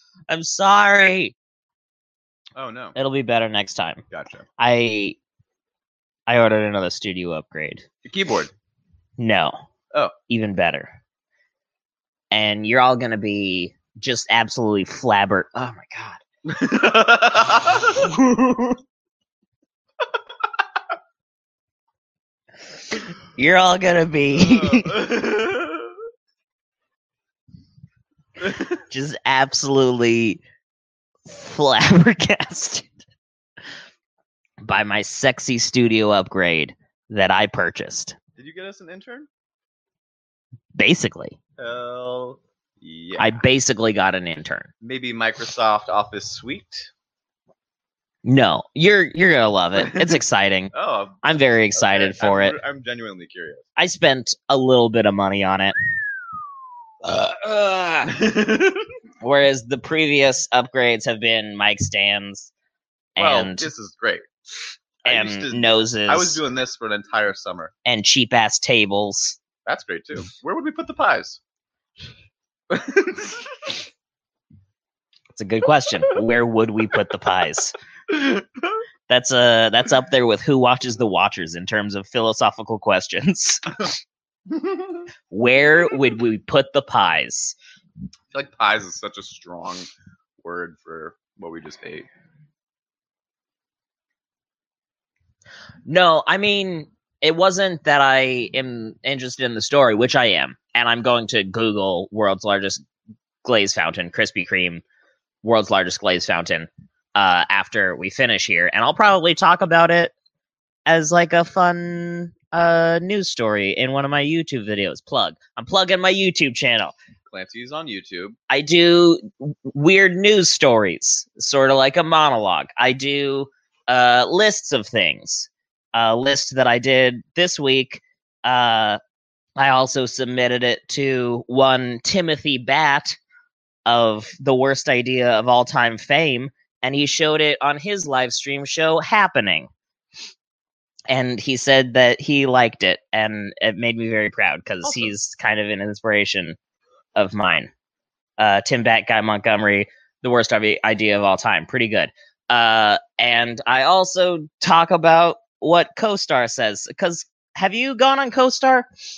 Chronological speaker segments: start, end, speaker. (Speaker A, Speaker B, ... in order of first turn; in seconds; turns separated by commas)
Speaker A: 0.3-1.4, Speaker B: 2.5-3.0, Speaker A: 3.0-4.0, Speaker B: 4.1-4.5, Speaker A: 4.6-5.2, Speaker A: 6.3-7.8, Speaker B: 8.1-8.5, Speaker A: 9.2-9.6, Speaker A: 10.3-10.9, Speaker A: 12.3-16.2, Speaker B: 16.4-18.1, Speaker A: 17.9-18.8, Speaker A: 22.9-25.0, Speaker B: 24.3-26.0, Speaker B: 28.4-28.8, Speaker A: 28.8-30.4, Speaker A: 31.3-32.9, Speaker A: 34.6-38.2, Speaker B: 38.4-39.3, Speaker A: 40.8-41.4, Speaker B: 41.6-43.4, Speaker A: 43.2-44.7, Speaker B: 44.8-46.9, Speaker A: 48.2-52.6, Speaker B: 49.8-50.2, Speaker B: 50.7-53.7, Speaker A: 53.8-55.7, Speaker A: 57.1-58.1, Speaker B: 58.0-58.9, Speaker A: 59.2-62.5, Speaker A: 63.2-63.7, Speaker B: 63.2-64.3, Speaker B: 65.0-67.7, Speaker A: 65.0-66.4, Speaker A: 67.9-69.4, Speaker B: 69.7-71.4, Speaker B: 72.7-73.8, Speaker A: 75.3-77.8, Speaker B: 78.1-78.8, Speaker A: 79.1-83.9, Speaker B: 84.5-85.0, Speaker A: 85.3-87.6, Speaker B: 88.3-89.9, Speaker B: 90.4-92.1, Speaker A: 95.9-102.8, Speaker A: 103.4-104.8, Speaker A: 105.4-110.1, Speaker A: 110.9-116.9, Speaker B: 117.3-118.4, Speaker A: 118.5-129.0, Speaker A: 129.6-133.2, Speaker A: 133.9-139.7, Speaker A: 141.1-146.6, Speaker B: 144.8-145.1, Speaker A: 147.2-147.7, Speaker A: 148.4-158.9